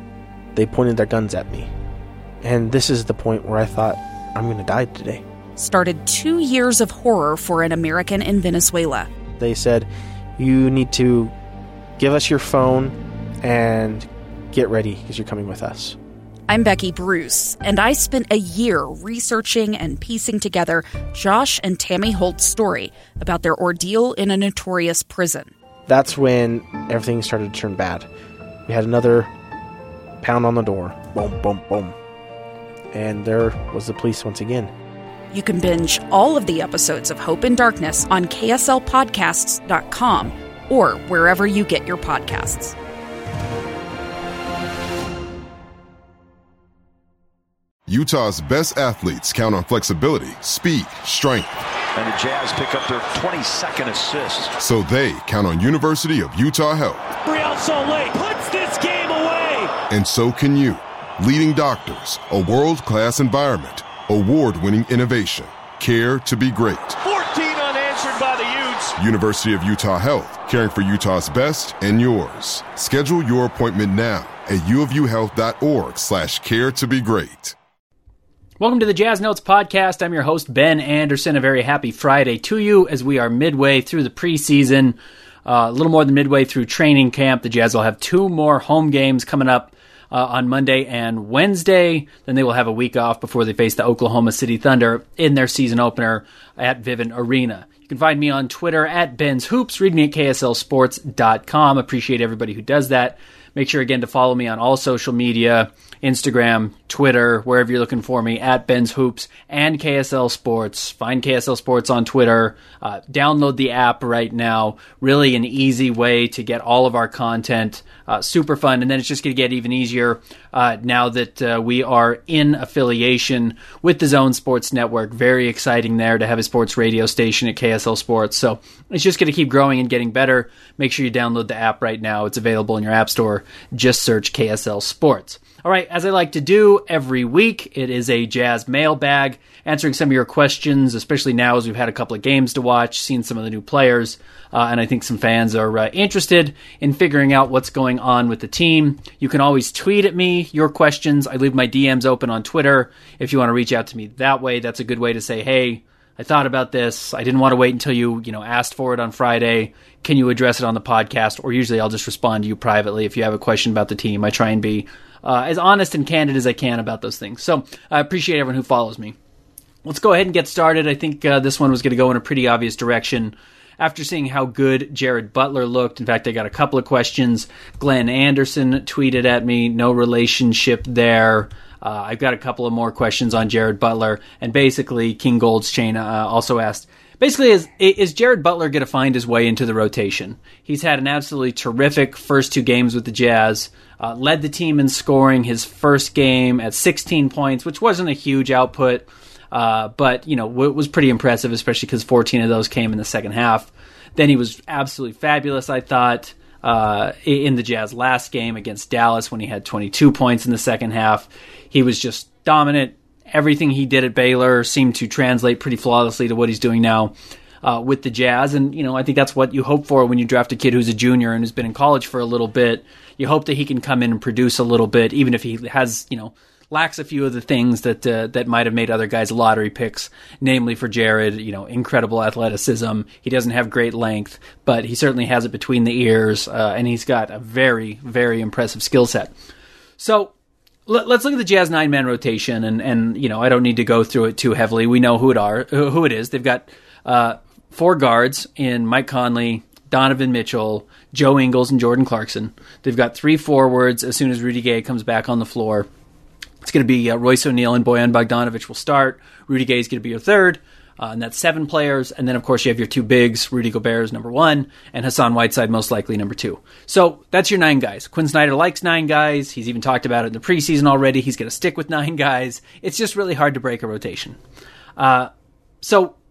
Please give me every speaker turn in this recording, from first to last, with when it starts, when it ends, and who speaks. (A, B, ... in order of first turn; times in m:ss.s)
0:00.5-0:01.7 A
0:02.4-0:05.2 A
0:05.6-0:09.1 B
0:09.4-0:11.3 A
0:12.0-0:16.0 A
0:16.5-0:25.5 B
0:25.9-0:28.1 A
0:28.6-0:29.3 A
0:30.2-0:31.9 A
0:32.9-0:34.7 A
0:35.3-0:42.8 B
0:47.9-0:51.6 C
0:51.9-0:54.5 D
0:54.6-0:57.0 C
0:57.2-0:59.7 E
0:59.9-1:07.0 C
1:07.0-1:09.0 E
1:09.0-1:17.6 C
1:18.6-2:49.1 F
2:49.8-3:59.3 F
4:00.0-4:00.3 F
4:00.9-4:15.9 F
4:16.6-4:34.4 F
4:35.0-4:35.3 F
4:35.8-4:36.1 F